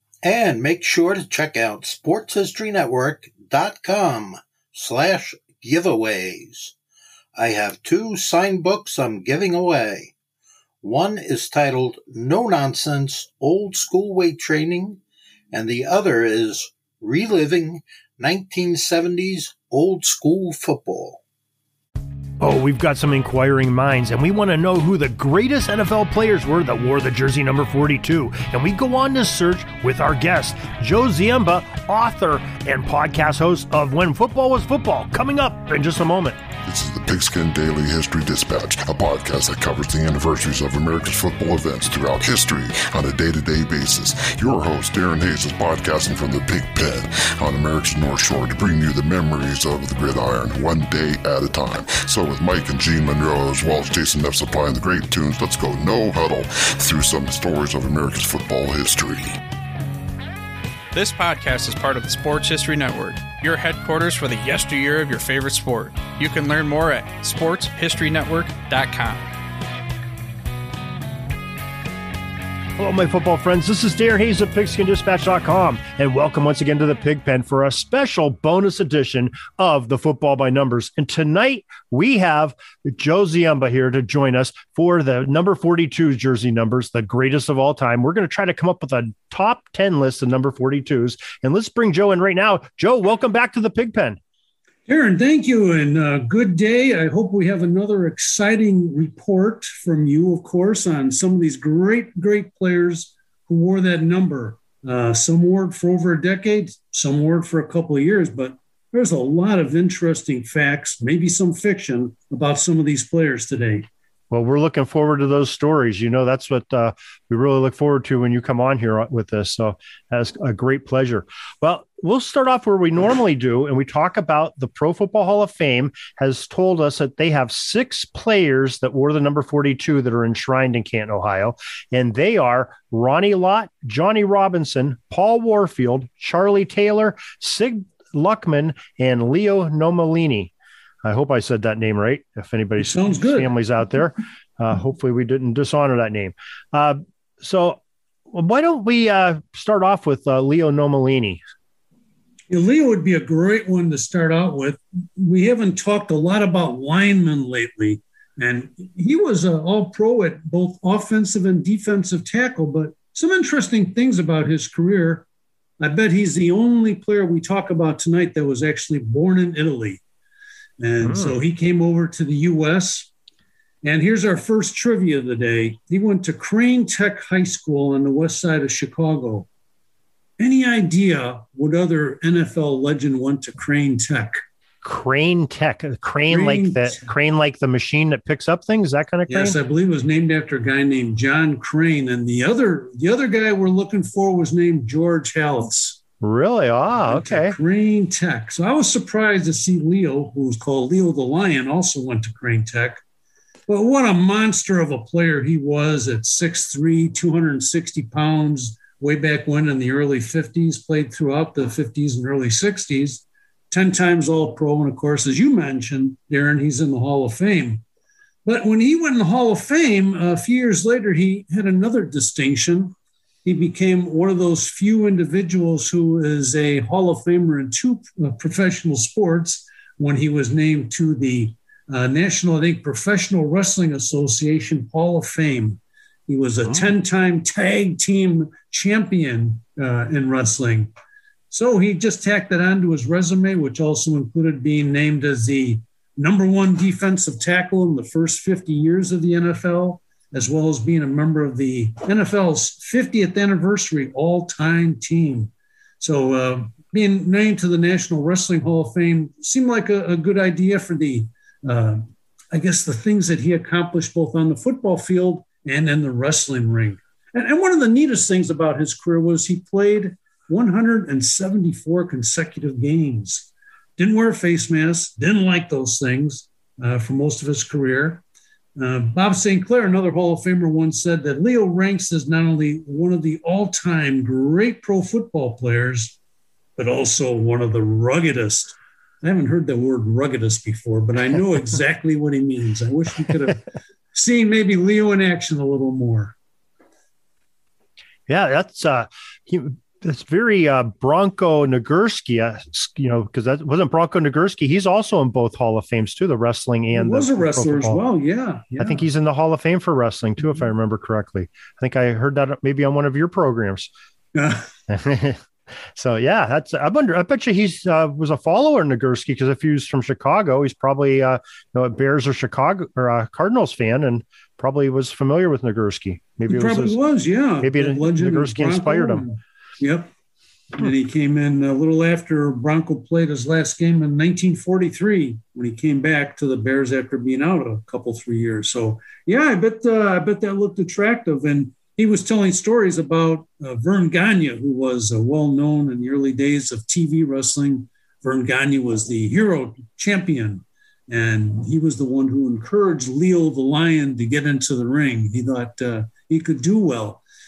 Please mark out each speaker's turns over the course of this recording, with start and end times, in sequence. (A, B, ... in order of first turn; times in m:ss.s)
0:00.2-0:06.7 A
0:07.4-0:10.1 A
0:10.8-0:15.0 A
0:15.5-0:21.2 A
0:22.4-0:36.4 B
0:36.6-0:59.4 C
1:00.9-1:09.3 D
1:12.8-1:34.2 B
1:34.9-1:53.9 E
1:54.3-2:20.5 B
2:21.0-2:27.8 B
2:22.8-2:23.5 E
2:28.3-2:31.4 B
2:32.5-2:45.3 E
2:45.8-2:50.0 E
2:50.8-2:53.1 E
2:51.0-2:51.4 B
2:53.8-2:59.5 E
3:00.4-3:04.4 E
3:04.8-3:09.6 B
3:06.3-3:07.1 E
3:09.3-3:16.0 E
3:16.2-3:17.6 B
3:17.0-3:23.0 E
3:23.7-3:37.8 E
3:38.4-3:42.9 E
3:43.4-4:00.9 E
4:01.5-4:38.2 E
4:38.8-4:46.2 E
4:46.8-4:56.4 E
4:58.3-5:08.0 B
5:06.9-5:09.0 E
5:08.8-5:13.9 B
5:14.4-5:14.7 E
5:14.9-5:15.4 B
5:16.0-5:27.0 B
5:26.5-5:30.1 E
5:27.6-5:29.2 B
5:30.8-5:57.2 E